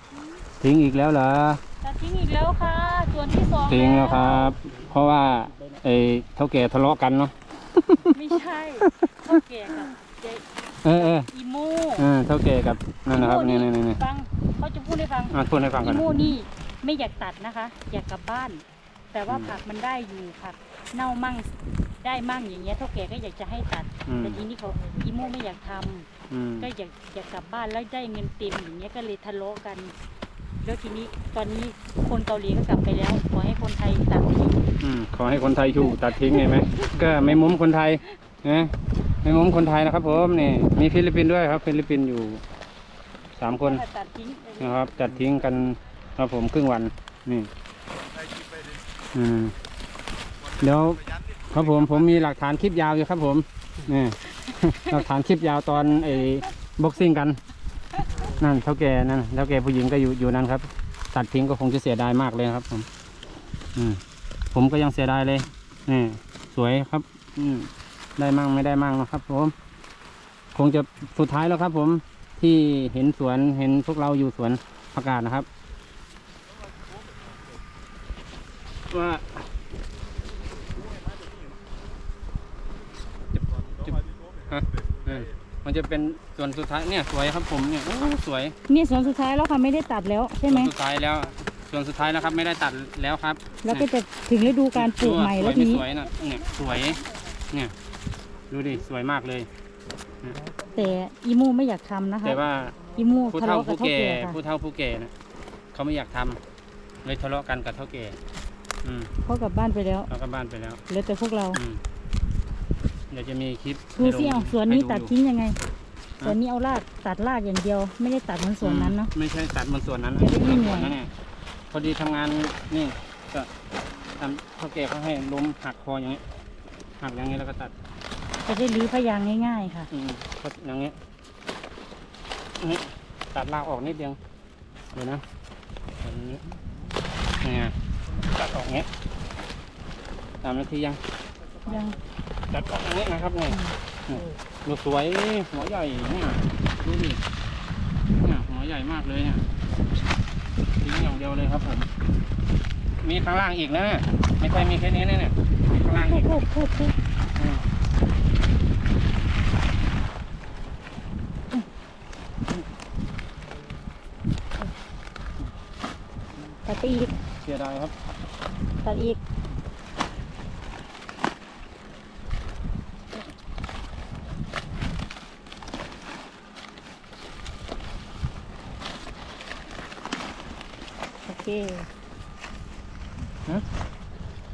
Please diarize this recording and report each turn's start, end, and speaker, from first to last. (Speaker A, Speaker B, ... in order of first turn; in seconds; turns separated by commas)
Speaker A: 0.6-1.6, Speaker B: 1.8-4.5, Speaker A: 3.7-8.2, Speaker B: 8.1-12.1, Speaker A: 8.8-9.4, Speaker A: 10.8-11.3, Speaker A: 12.0-14.0, Speaker B: 13.1-21.5, Speaker A: 15.3-16.2, Speaker A: 19.3-19.5, Speaker B: 22.0-26.1, Speaker A: 24.1-24.4, Speaker A: 26.3-26.7, Speaker B: 26.6-29.9, Speaker B: 30.6-34.7, Speaker A: 34.8-42.4, Speaker B: 36.0-37.2, Speaker A: 43.4-43.8, Speaker B: 43.6-45.0, Speaker A: 44.6-47.5, Speaker A: 49.1-49.5, Speaker A: 50.6-57.4, Speaker A: 58.3-62.9, Speaker A: 63.7-64.0, Speaker A: 64.5-69.5, Speaker A: 70.5-75.5, Speaker A: 78.9-79.4, Speaker A: 83.3-88.5, Speaker B: 88.7-90.7, Speaker A: 90.5-93.9, Speaker B: 93.6-95.9, Speaker A: 94.7-97.7, Speaker A: 98.5-99.5, Speaker B: 100.7-104.4, Speaker A: 102.2-102.8, Speaker A: 103.3-105.1, Speaker A: 105.7-106.4, Speaker A: 107.0-108.2, Speaker A: 108.8-109.1, Speaker B: 109.2-110.1, Speaker A: 110.1-110.8, Speaker B: 110.9-111.6, Speaker A: 111.5-111.8, Speaker A: 113.1-115.1, Speaker B: 114.0-115.6, Speaker B: 116.2-119.1, Speaker A: 118.6-121.1, Speaker B: 120.2-121.0, Speaker A: 121.7-123.5, Speaker A: 124.2-126.2, Speaker A: 127.0-127.7, Speaker B: 128.4-129.9, Speaker A: 129.9-130.9, Speaker A: 132.6-134.2, Speaker A: 134.9-135.2, Speaker A: 136.0-136.4, Speaker A: 137.4-138.9, Speaker A: 140.4-141.0, Speaker B: 141.7-142.0, Speaker A: 142.5-147.2, Speaker B: 143.5-143.7, Speaker A: 148.2-149.4, Speaker A: 150.8-151.9, Speaker A: 153.0-156.3, Speaker B: 155.9-156.9, Speaker A: 157.4-157.6, Speaker B: 166.7-167.1, Speaker A: 167.4-167.9, Speaker B: 168.8-169.2, Speaker B: 181.2-181.8